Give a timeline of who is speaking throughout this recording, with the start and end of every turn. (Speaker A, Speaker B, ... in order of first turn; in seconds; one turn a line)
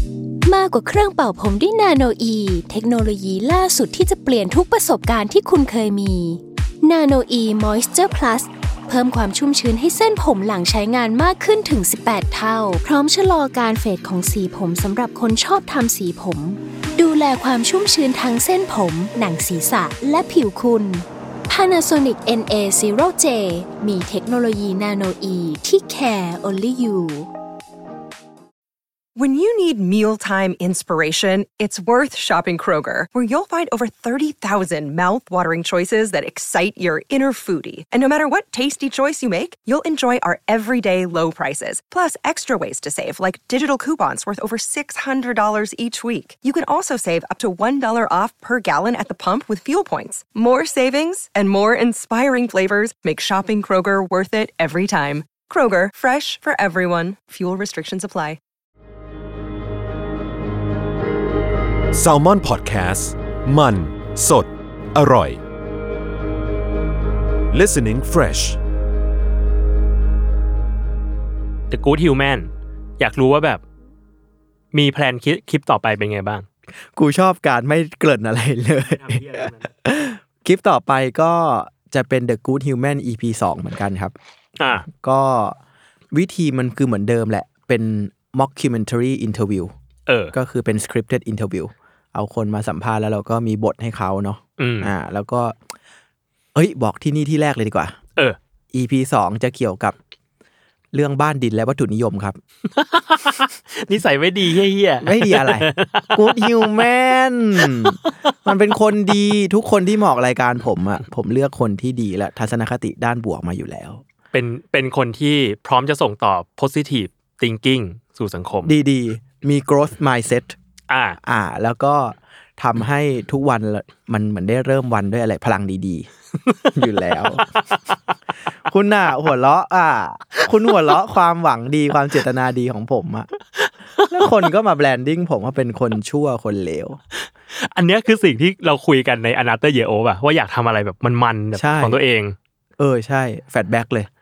Speaker A: 0.4-27.3
Speaker B: 29.1-58.4
Speaker C: 61.9-65.4
Speaker C: 67.5-68.6
Speaker D: 71.7-73.6
Speaker D: 74.7-76.5
Speaker E: 77.0-84.1
Speaker D: 79.1-79.6
Speaker D: 84.6-84.9
Speaker E: 84.8-85.6
Speaker E: 86.1-89.7
Speaker D: 90.1-90.3
Speaker E: 90.3-95.6
Speaker D: 94.6-94.9
Speaker E: 96.5-97.9
Speaker E: 98.7-100.0
Speaker E: 100.9-102.4
Speaker D: 102.7-106.8
Speaker E: 105.0-114.0
Speaker D: 107.6-108.3
Speaker D: 114.3-118.7
Speaker E: 118.7-120.5
Speaker D: 120.9-121.2
Speaker E: 121.2-126.1
Speaker D: 126.5-128.0
Speaker E: 126.7-127.6
Speaker E: 128.6-133.3
Speaker D: 133.6-134.1
Speaker E: 134.1-137.0
Speaker D: 137.2-142.3
Speaker E: 141.6-142.0
Speaker E: 142.8-144.1